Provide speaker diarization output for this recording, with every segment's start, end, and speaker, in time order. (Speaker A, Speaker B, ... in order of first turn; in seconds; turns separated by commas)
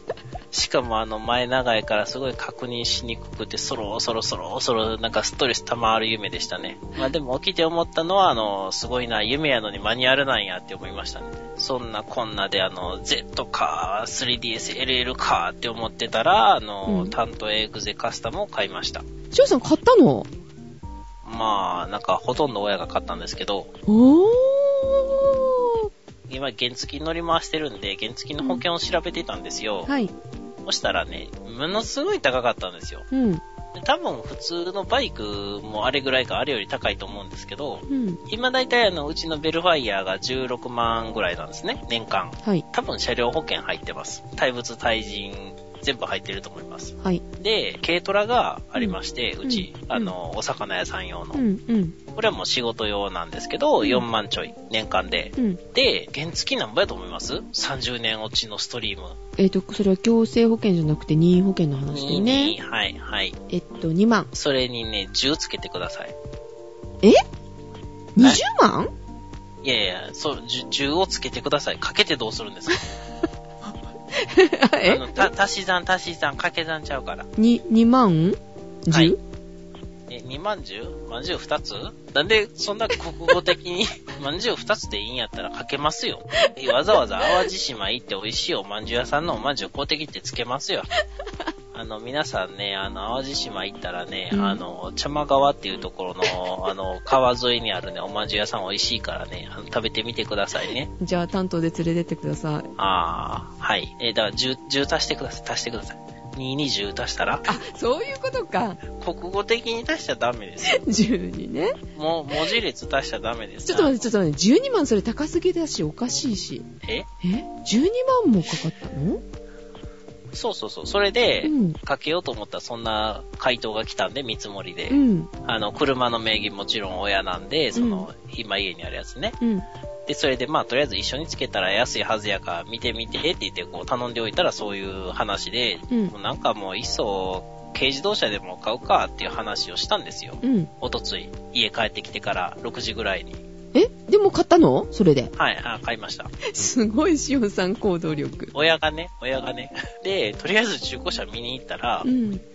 Speaker A: 0.5-19.0, Speaker B: 16.9-17.1, Speaker B: 19.3-20.3, Speaker A: 21.2-23.7, Speaker B: 23.9-25.8, Speaker A: 26.3-29.9, Speaker B: 29.9-30.1, Speaker A: 30.6-33.1, Speaker B: 33.1-33.4, Speaker A: 33.7-51.4, Speaker B: 37.9-38.2, Speaker B: 48.8-50.1, Speaker B: 51.3-52.0, Speaker A: 52.1-59.2, Speaker B: 53.8-54.1, Speaker B: 59.4-62.6, Speaker A: 61.9-63.4, Speaker B: 63.5-64.3, Speaker A: 64.3-66.1, Speaker B: 68.2-68.9, Speaker A: 69.6-72.9, Speaker B: 74.1-75.3, Speaker A: 74.9-77.3, Speaker B: 77.4-79.2, Speaker A: 80.1-90.9, Speaker B: 86.4-87.5, Speaker A: 91.7-100.9, Speaker B: 94.3-94.6, Speaker B: 101.0-102.7, Speaker A: 102.8-107.5, Speaker B: 107.5-108.8, Speaker A: 108.9-110.8, Speaker B: 110.7-111.8, Speaker A: 111.9-114.0, Speaker B: 113.7-116.7, Speaker B: 117.2-119.2, Speaker A: 120.3-129.4, Speaker B: 121.4-121.8, Speaker B: 124.9-125.3, Speaker B: 127.8-128.1, Speaker B: 129.4-129.7, Speaker A: 130.1-143.4, Speaker B: 140.4-140.7, Speaker B: 143.7-145.3, Speaker A: 145.3-146.3, Speaker B: 146.4-148.5, Speaker A: 148.5-152.1, Speaker B: 152.0-152.4